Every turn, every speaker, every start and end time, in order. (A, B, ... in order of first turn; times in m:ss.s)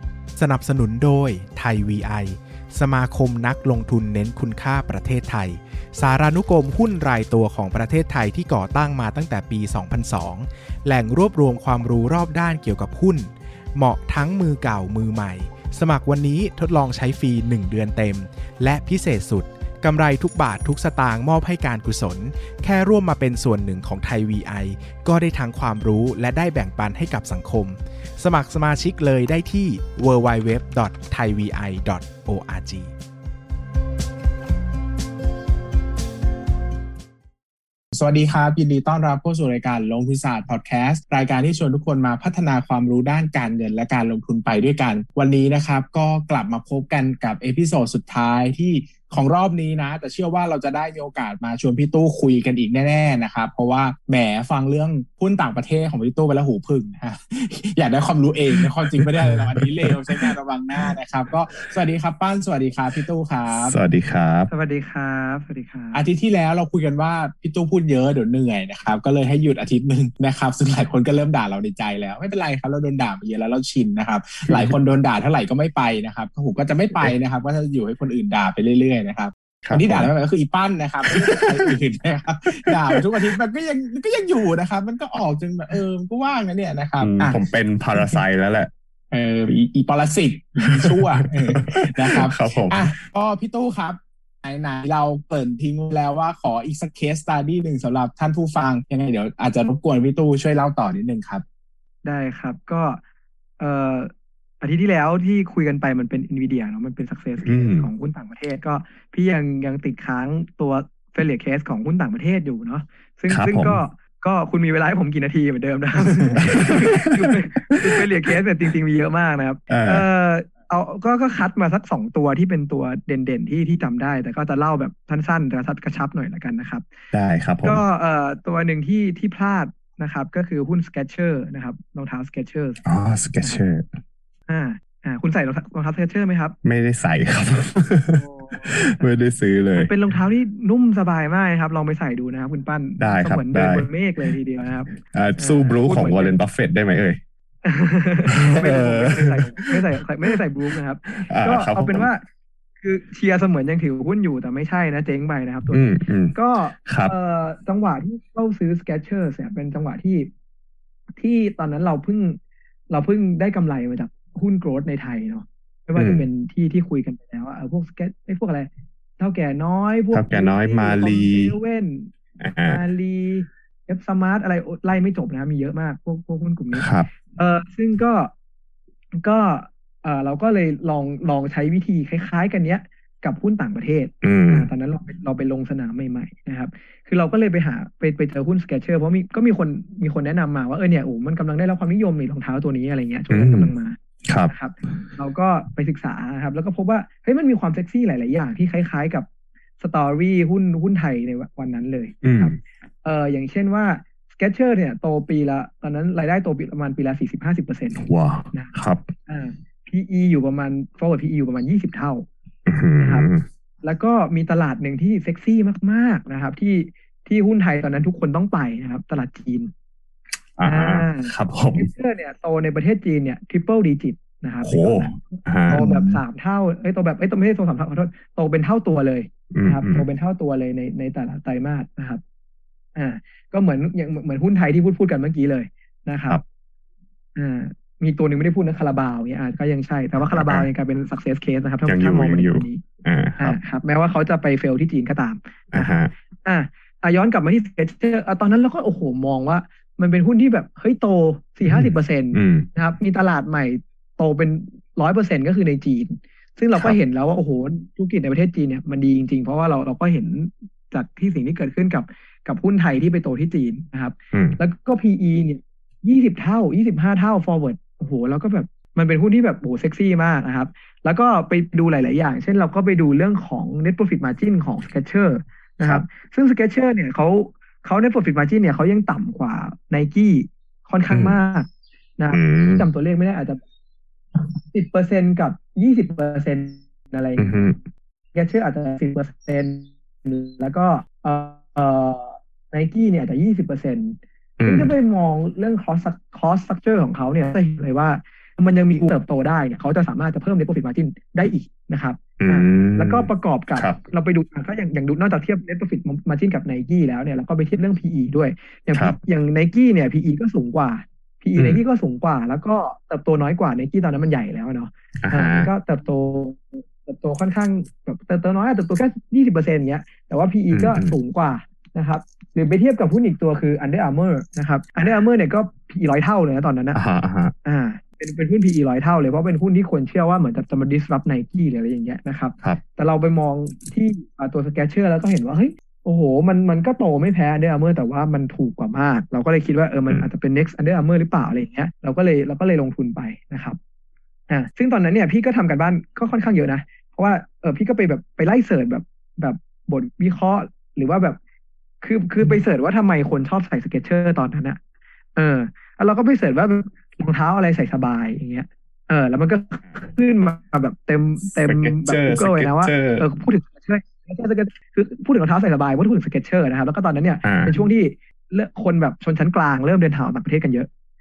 0:00.4-0:32.9 A
0:37.9-1:03.8 B
0:58.6-1:00.3 C
1:03.6-1:04.5 C
1:04.5-1:06.0 D
1:05.9-1:27.4 B
1:14.5-1:14.7 C
1:19.6-1:20.1 C
1:21.2-1:21.7 C
1:22.7-1:23.3 C
1:27.0-1:28.7 C
1:29.1-1:41.4 B
1:30.7-1:32.9 C
1:42.0-1:43.0 D
1:43.6-2:06.9 D
1:47.4-1:47.9 C
1:53.3-1:53.8 C
1:56.4-1:58.3 C
1:59.7-2:00.0 C
2:07.1-2:07.8 C
2:07.6-2:12.8 D
2:12.8-2:14.0 C
2:14.5-2:16.5 D
2:16.6-2:19.9 C
2:18.1-2:19.0 D
2:19.8-2:26.4 D
2:23.0-2:24.3 C
2:25.0-2:27.2 C
2:27.6-2:32.2 D
2:28.3-2:30.4 C
2:31.2-2:32.1 C
2:32.8-2:40.3 D
2:35.7-2:37.1 C
2:41.2-2:42.4 D
2:42.9-2:52.1 D
2:46.0-2:46.3 C
2:50.1-2:51.5 C
2:52.4-2:52.8 C
2:52.6-2:58.3 D
2:56.7-2:57.1 C
2:59.2-3:19.3 D
3:04.2-3:04.7 C
3:13.3-3:13.7 C
3:14.2-3:15.0 C
3:19.8-3:28.8 D
3:22.2-3:22.6 C
3:28.0-3:29.1 C
3:29.3-3:32.2 D
3:32.7-3:33.4 C
3:33.0-3:33.3 D
3:33.8-3:39.7 D
3:40.6-3:41.9 C
3:40.6-3:52.2 D
3:44.6-3:46.2 C
3:49.5-3:50.0 C
3:53.0-3:56.4 D
3:57.4-4:02.8 D
4:00.2-4:00.7 C
4:01.8-4:03.6 C
4:03.4-4:43.6 D
4:05.7-4:06.1 C
4:11.6-4:12.7 C
4:24.3-4:24.6 C
4:41.1-4:41.4 C
4:42.3-4:42.8 C
4:44.7-4:47.5 D
4:47.4-4:47.8 C
4:48.3-5:27.0 D
4:54.6-4:54.9 C
5:02.4-5:04.0 C
5:11.6-5:11.8 C
5:15.2-5:15.7 C
5:20.7-5:21.2 C
5:26.9-5:27.5 C
5:27.6-5:43.8 D
5:44.5-5:51.4 D
5:52.0-5:54.8 D
5:55.4-6:10.9 D
6:01.6-6:03.2 C
6:07.4-6:07.8 C